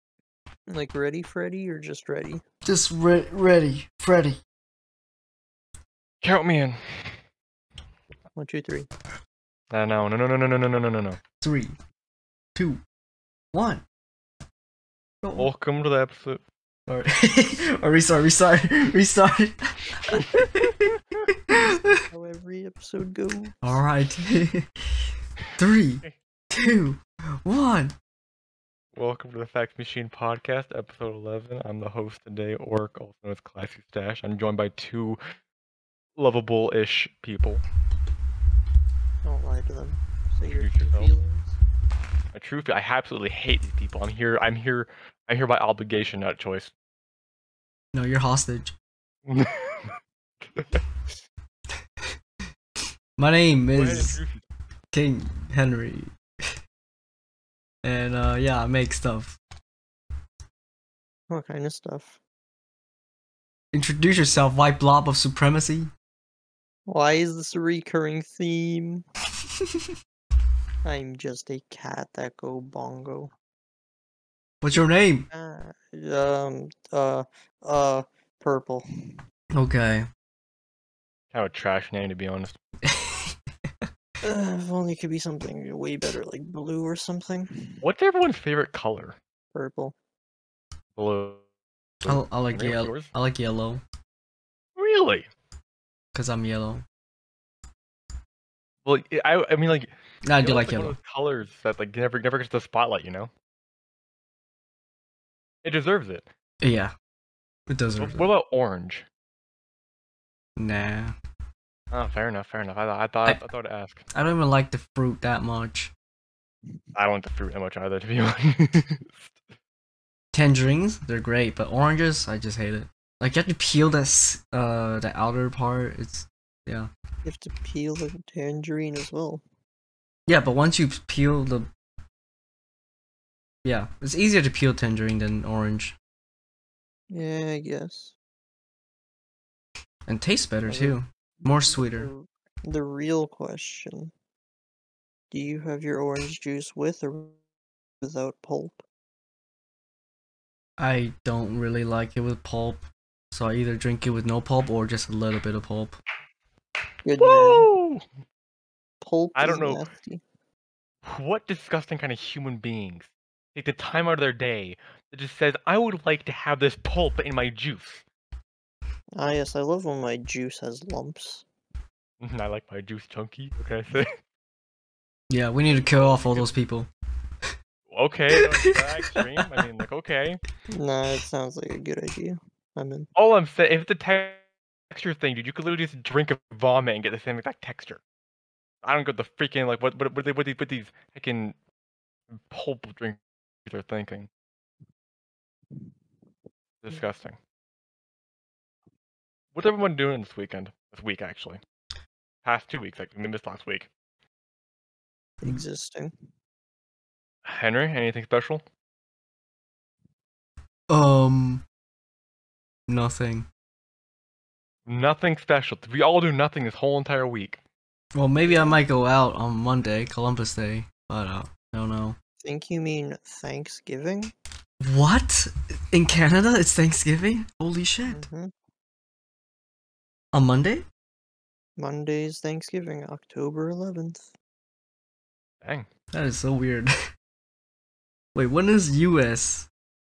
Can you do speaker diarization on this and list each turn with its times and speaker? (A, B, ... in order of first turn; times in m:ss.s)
0:00.7-0:02.4 A
0:02.6-0:04.4 B
0:06.2-0:07.2 C
0:08.4-0:08.9 A
0:09.7-0:11.2 C
0:11.4-0:11.8 B
0:12.6-0:12.8 B
0:13.5-0:13.8 B
0:15.2-0:15.5 B
0:15.4-0:16.4 C
0:16.9-0:20.7 B
0:21.3-0:22.0 B
0:21.6-0:23.8 A
0:23.6-0:27.9 B
0:28.9-0:35.2 C
0:36.2-0:37.6 C
0:39.2-0:41.6 A
0:40.5-0:41.1 C
0:42.3-0:46.7 C
0:47.9-0:48.7 B
0:49.2-0:50.8 C
0:53.2-0:54.2 B
0:53.7-0:54.4 C
0:54.9-0:56.5 B
0:57.8-0:59.4 B
1:01.3-1:02.2 A
1:03.7-1:05.9 B
1:06.9-1:09.0 A
1:09.6-1:09.9 B
1:10.8-1:13.3 A
1:14.6-1:15.2 B
1:15.3-1:18.8 A
1:19.5-1:20.1 B
1:21.3-1:22.6 C
1:22.8-1:23.9 B
1:24.2-1:27.8 A
1:27.8-1:29.2 C
1:29.5-1:29.9 A
1:31.0-1:31.4 C
1:32.0-1:33.8 B
1:32.0-1:33.1 C
1:34.8-1:35.3 C
1:36.1-1:36.8 B
1:38.8-1:43.3 C
1:40.2-1:41.0 B
1:45.6-1:46.3 C
1:46.6-1:46.9 B
1:47.7-1:48.2 B
1:48.0-1:49.0 C
1:50.6-1:51.1 B
1:51.9-1:54.0 C
1:54.1-1:55.9 B
1:56.9-1:59.4 C
2:00.3-2:06.9 B
2:07.2-2:09.4 A
2:10.3-2:11.7 B
2:13.6-2:15.9 B
2:17.1-2:18.2 A
2:20.0-2:22.1 B
2:20.7-2:24.1 A
2:25.3-2:27.4 A
2:28.0-2:28.8 A
2:30.8-2:36.0 B
2:37.0-2:37.7 A
2:37.2-2:38.0 C
2:39.0-2:40.2 A
2:39.4-2:39.9 C
2:41.0-2:48.0 C
2:49.2-2:51.4 A
2:52.2-2:54.1 C
2:55.3-2:56.9 B
2:55.7-2:56.6 C
2:57.9-3:00.4 C
2:58.3-2:59.6 B
3:00.7-3:03.1 A
3:03.1-3:08.0 C
3:08.8-3:11.6 C
3:12.3-3:14.3 C
3:16.8-3:17.4 C
3:19.5-3:21.6 C
3:22.4-3:23.9 C
3:25.4-3:26.1 A
3:27.4-3:28.6 C
3:30.9-3:31.6 B
3:32.9-3:33.5 B
3:34.8-3:37.6 C
3:38.1-3:42.2 B
3:38.4-3:38.8 A
3:42.4-3:44.3 A
3:44.8-3:48.2 B
3:48.1-3:48.5 A
3:50.3-3:50.8 B
3:51.8-3:54.3 A
3:55.6-3:55.9 C
3:56.1-3:56.9 B
3:58.3-3:59.7 B